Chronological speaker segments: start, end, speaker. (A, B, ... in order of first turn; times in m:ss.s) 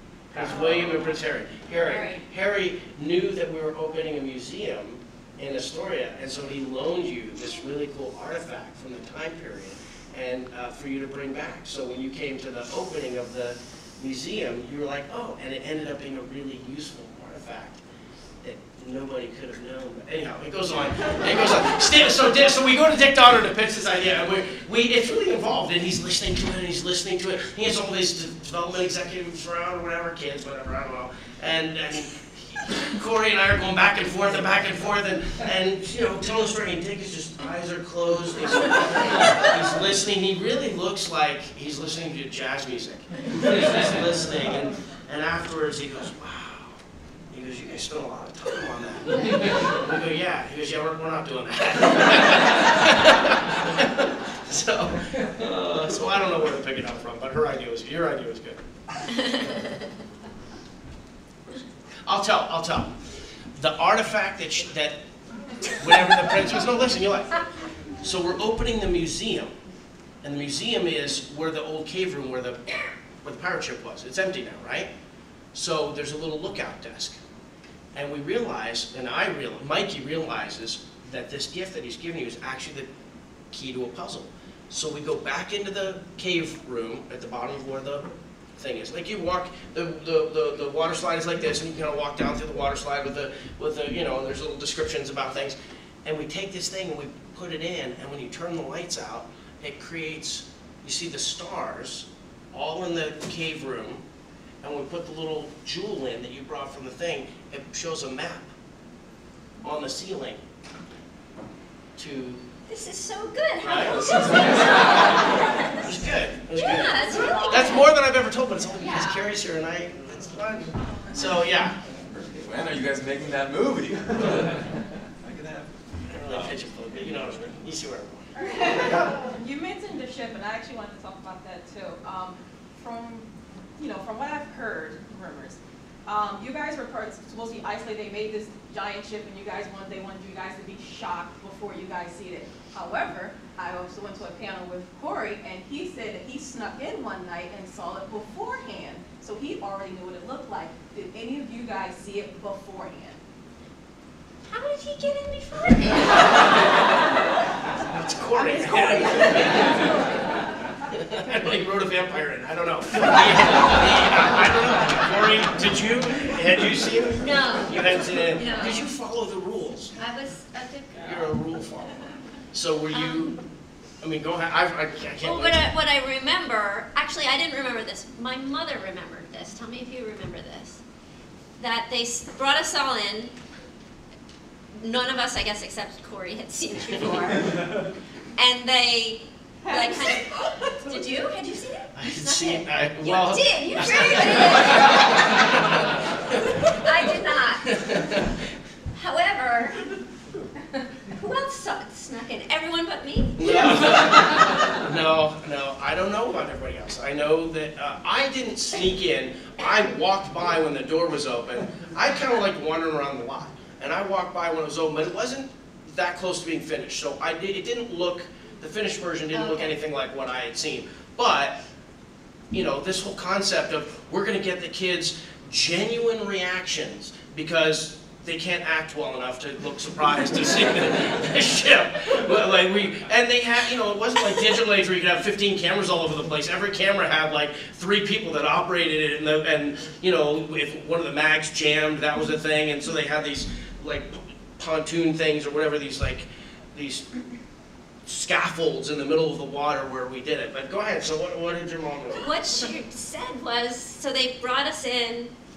0:00.3-0:17.8 A
0:00.4-0:00.8 B
0:01.7-0:02.2 B
0:18.4-0:46.8 A
0:47.3-0:58.6 A
1:02.0-1:02.9 A
1:03.5-1:05.0 A
1:05.7-1:07.4 A
1:08.0-1:09.5 A
1:10.2-1:14.9 A
1:15.5-1:17.2 A
1:17.9-1:22.9 A
1:23.5-1:44.0 A
1:44.6-1:48.5 A
1:49.6-1:50.4 A
1:52.0-1:52.4 A
1:52.7-1:55.7 B
1:53.6-2:01.8 A
1:54.2-1:55.1 C
1:56.6-1:57.9 B
1:58.8-1:59.1 D
2:02.1-2:06.6 C
2:06.1-2:08.3 A
2:08.3-2:33.2 D
2:34.4-2:37.1 B
2:37.9-2:39.7 A
2:38.4-2:39.9 D
2:39.0-2:40.4 B
2:40.9-2:49.9 A
2:47.2-2:48.8 B
2:50.0-2:51.1 B
2:51.0-2:53.4 A
2:52.9-2:53.2 B
2:54.0-2:55.6 A
2:55.2-3:00.8 B
3:01.6-3:03.3 B
3:04.7-3:07.5 B
3:08.4-3:10.3 B
3:09.6-3:11.1 D
3:10.8-3:15.5 B
3:12.0-3:17.1 A
3:16.3-3:17.7 B
3:17.7-3:18.2 A
3:19.0-3:19.9 B
3:21.1-3:23.9 B
3:23.4-3:41.6 A
3:39.3-3:39.7 B
3:42.5-4:07.1 A
4:08.0-4:12.3 A
4:12.2-4:15.3 B